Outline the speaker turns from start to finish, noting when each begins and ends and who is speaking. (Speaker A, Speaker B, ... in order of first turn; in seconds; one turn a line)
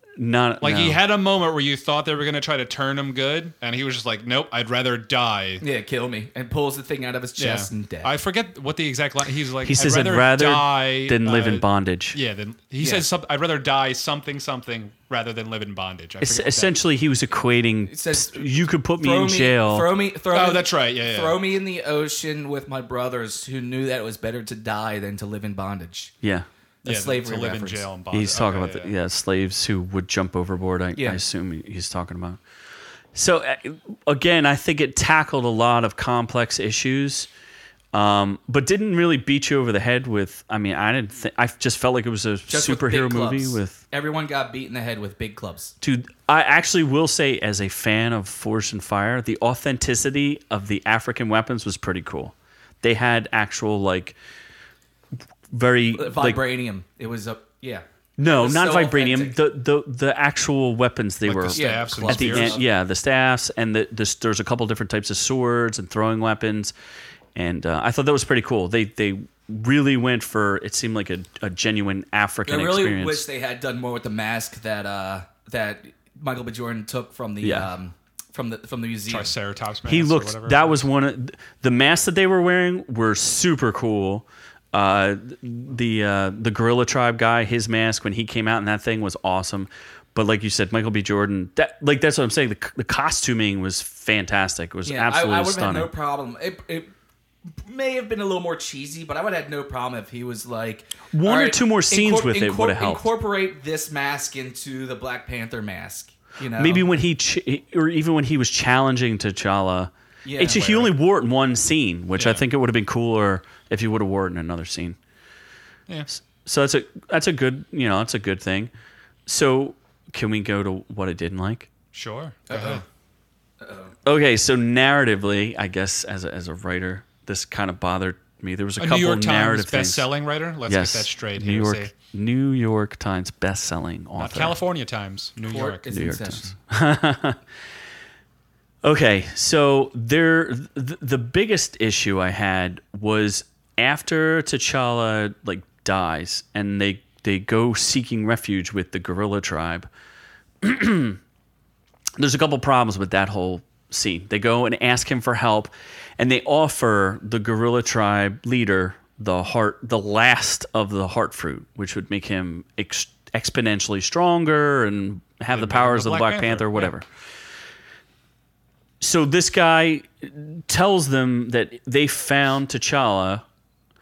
Speaker A: 0.2-1.0
Speaker B: 0.6-5.6
Speaker C: 5.6-8.1
Speaker B: 7.4-16.7
Speaker A: 9.6-12.2
Speaker C: 12.8-13.1
Speaker A: 16.2-19.9
Speaker C: 17.9-26.1
Speaker B: 20.3-21.4
Speaker A: 26.2-26.5
Speaker C: 26.8-27.9
Speaker B: 26.8-28.9
Speaker A: 28.1-32.4
Speaker C: 30.9-31.2
Speaker A: 33.1-37.3
Speaker A: 37.9-43.8
Speaker C: 42.5-45.7
Speaker A: 45.8-54.1
Speaker A: 55.5-56.4
Speaker C: 55.9-59.4
Speaker A: 58.2-66.7
Speaker B: 61.2-62.6
Speaker C: 61.5-62.6
Speaker A: 67.3-73.2
Speaker C: 72.5-79.3
Speaker A: 77.4-77.7
Speaker B: 79.1-80.7
Speaker A: 79.8-95.9
Speaker C: 94.8-96.9
Speaker C: 97.5-106.9
Speaker A: 101.1-103.0
Speaker A: 106.6-115.0
Speaker C: 110.2-110.7
Speaker B: 110.5-110.9
Speaker B: 112.2-112.4
Speaker A: 116.2-118.7
Speaker A: 119.3-121.7
Speaker B: 121.9-122.8
Speaker C: 122.5-122.8
Speaker C: 123.6-123.9
Speaker A: 124.0-130.1
Speaker B: 128.8-131.9
Speaker A: 130.7-134.6
Speaker B: 134.2-136.2
Speaker C: 135.4-136.5
Speaker A: 135.9-137.4
Speaker A: 138.8-149.9
Speaker A: 150.6-151.2
Speaker A: 152.2-167.1
Speaker B: 165.5-166.9
Speaker A: 169.0-173.4